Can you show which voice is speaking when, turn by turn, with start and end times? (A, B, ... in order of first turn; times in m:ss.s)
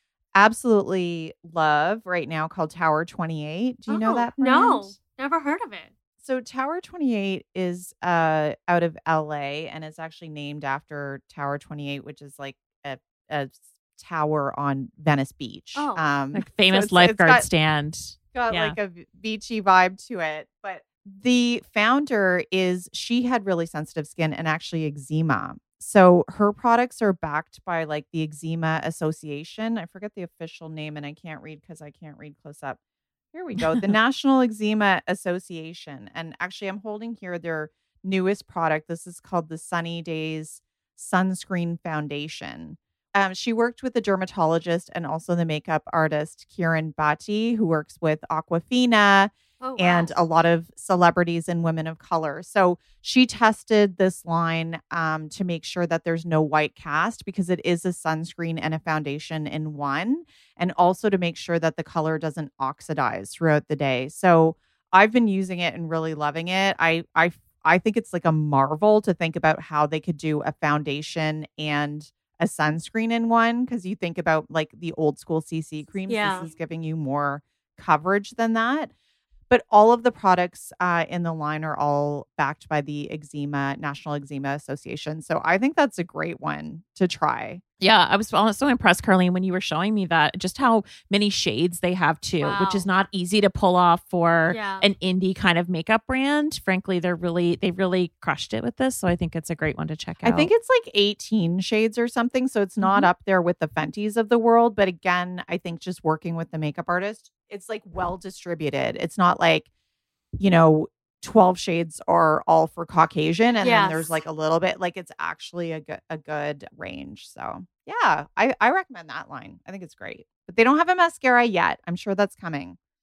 0:00.3-0:04.9 A
0:03.9-0:05.9 B
0:06.2-0:17.5 A
0:15.7-0:16.0 B
0:16.3-0:18.8 C
0:18.3-0:32.8 A
0:33.3-1:18.9 A
0:49.6-0:50.2 B
1:16.1-1:16.5 B
1:19.5-1:27.6 A
1:27.8-1:40.5 C
1:32.4-1:32.9 B
1:34.5-1:34.8 B
1:40.2-1:49.7 A
1:50.4-2:02.8 A
1:53.6-1:54.2 B